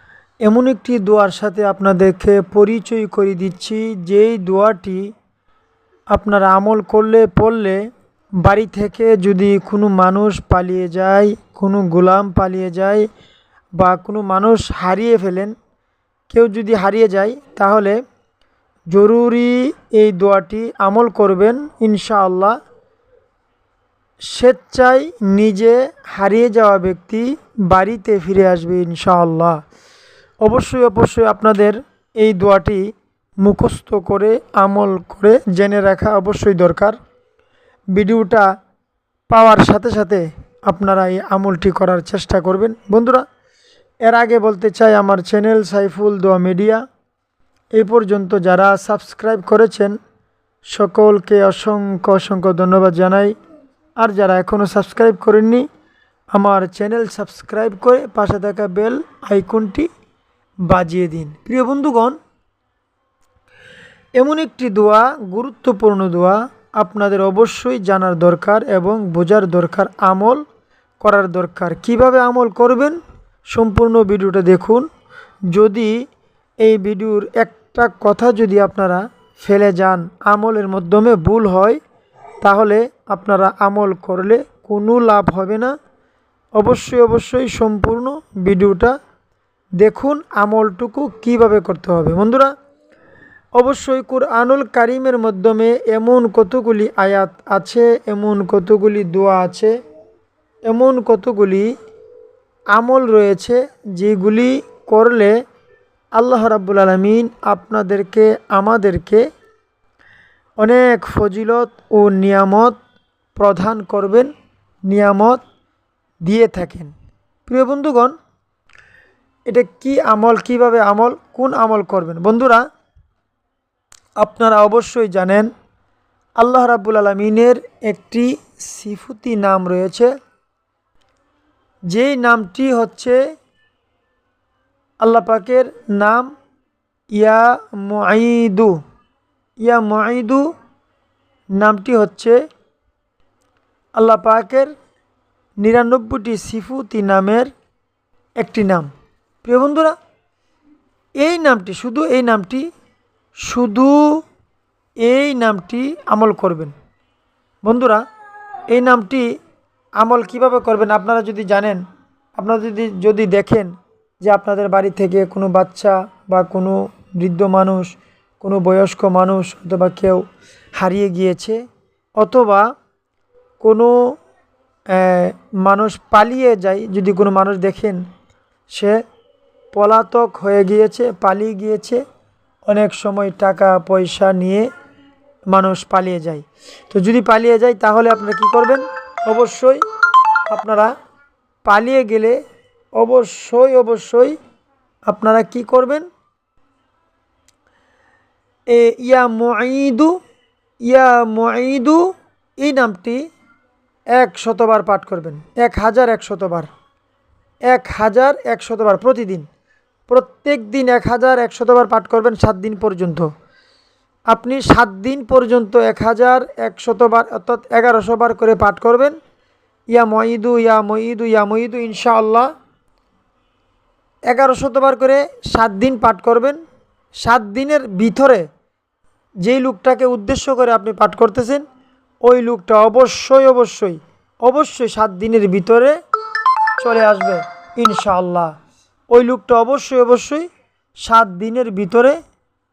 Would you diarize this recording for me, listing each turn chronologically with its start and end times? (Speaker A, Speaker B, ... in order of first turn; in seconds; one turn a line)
Speaker A: 0.4-5.1
Speaker A: 6.1-7.8
Speaker A: 8.4-13.1
Speaker A: 13.8-15.5
Speaker A: 16.3-18.0
Speaker A: 18.9-22.6
Speaker A: 24.3-29.6
Speaker A: 30.4-37.0
Speaker A: 37.9-38.5
Speaker A: 39.3-43.2
Speaker A: 44.0-46.8
Speaker A: 47.8-50.0
Speaker A: 50.7-53.3
Speaker A: 54.0-55.7
Speaker A: 56.3-59.9
Speaker A: 60.6-62.2
Speaker A: 64.2-70.4
Speaker A: 71.0-73.0
Speaker A: 73.5-74.8
Speaker A: 75.5-76.0
Speaker A: 76.6-81.8
Speaker A: 82.4-85.7
Speaker A: 86.6-89.0
Speaker A: 89.8-92.5
Speaker A: 93.6-99.7
Speaker A: 100.6-101.7
Speaker A: 102.7-105.3
Speaker A: 106.1-109.2
Speaker A: 110.6-112.8
Speaker A: 113.3-114.3
Speaker A: 114.9-115.4
Speaker A: 116.2-116.9
Speaker A: 117.5-118.1
Speaker A: 119.5-122.6
Speaker A: 124.2-125.5
Speaker A: 126.4-130.1
Speaker A: 131.9-133.2
Speaker A: 135.0-136.3
Speaker A: 137.1-138.8
Speaker A: 139.6-140.5
Speaker A: 141.6-142.4
Speaker A: 143.9-144.7
Speaker A: 145.6-147.5
Speaker A: 148.4-148.9
Speaker A: 149.4-149.9
Speaker A: 151.2-152.7
Speaker A: 153.4-154.2
Speaker A: 155.0-156.7
Speaker A: 157.6-158.0
Speaker A: 158.7-159.3
Speaker A: 160.0-161.8
Speaker A: 162.4-170.2
Speaker A: 170.8-171.6
Speaker A: 172.2-172.7
Speaker A: 173.6-174.1
Speaker A: 174.9-178.0
Speaker A: 178.7-179.0
Speaker A: 179.7-182.0
Speaker A: 182.7-184.7
Speaker A: 185.5-189.8
Speaker A: 190.5-190.9
Speaker A: 191.6-192.4
Speaker A: 192.9-194.4
Speaker A: 195.1-196.1
Speaker A: 198.7-200.2
Speaker A: 200.8-203.2
Speaker A: 204.1-206.7
Speaker A: 207.7-209.5
Speaker A: 210.1-213.3
Speaker A: 214.3-219.2
Speaker A: 219.9-222.5
Speaker A: 224.3-226.6
Speaker A: 227.2-228.5
Speaker A: 229.4-231.6
Speaker A: 232.2-236.0
Speaker A: 236.8-238.5
Speaker A: 239.1-240.5
Speaker A: 241.0-242.2